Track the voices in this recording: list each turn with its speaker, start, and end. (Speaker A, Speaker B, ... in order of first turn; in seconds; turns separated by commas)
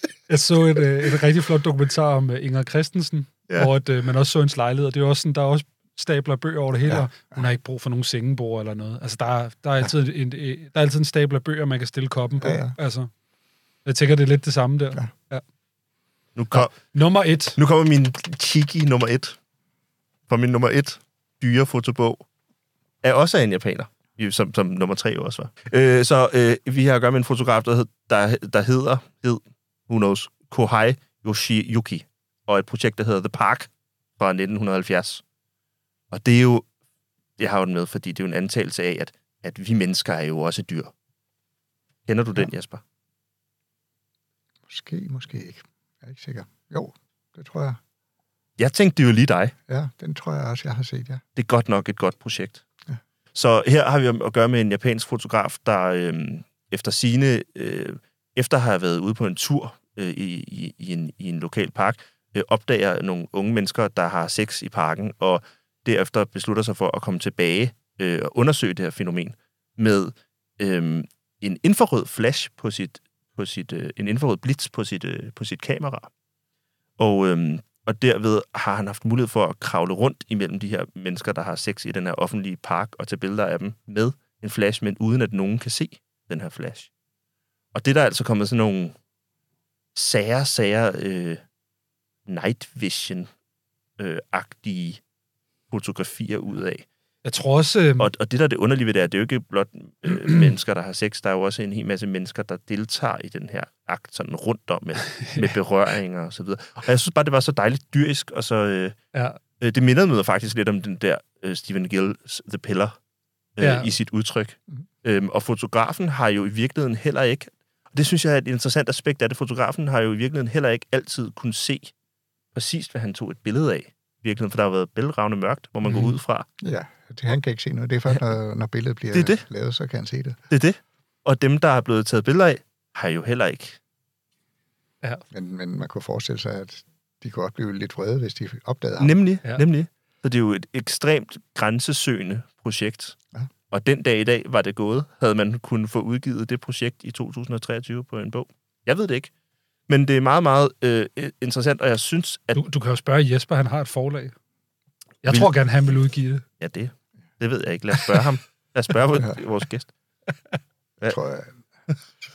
Speaker A: 0.3-13.1, Speaker B: 6.8-7.4, Speaker B: 12.4-12.8, Speaker A: 13.8-15.4, Speaker C: 16.4-16.8, Speaker A: 16.5-17.6, Speaker C: 17.6-19.4, Speaker C: 20.3-22.2, Speaker C: 23.0-35.2, Speaker C: 36.1-36.6, Speaker C: 37.4-40.9, Speaker C: 42.1-42.8, Speaker B: 44.7-47.8, Speaker C: 48.6-49.5, Speaker B: 49.7-51.2, Speaker C: 51.4-52.6, Speaker C: 53.4-76.1, Speaker C: 77.0-86.9, Speaker C: 87.7-89.0, Speaker C: 90.0-91.4, Speaker C: 92.3-93.3, Speaker C: 94.0-95.0, Speaker C: 95.7-96.8, Speaker A: 97.2-98.1, Speaker C: 98.0-109.0, Speaker A: 100.1-100.5, Speaker A: 105.2-105.5, Speaker A: 109.1-109.4, Speaker C: 109.6-113.0, Speaker C: 113.6-121.9, Speaker A: 113.6-113.9, Speaker C: 122.5-126.5, Speaker A: 125.9-126.2, Speaker B: 126.6-130.4, Speaker C: 129.1-129.4, Speaker C: 130.5-133.8, Speaker B: 135.3-139.1, Speaker C: 139.0-143.2, Speaker C: 143.7-149.3, Speaker C: 149.9-152.6, Speaker A: 152.6-154.3, Speaker A: 155.2-156.4, Speaker C: 156.6-159.9, Speaker B: 161.1-161.6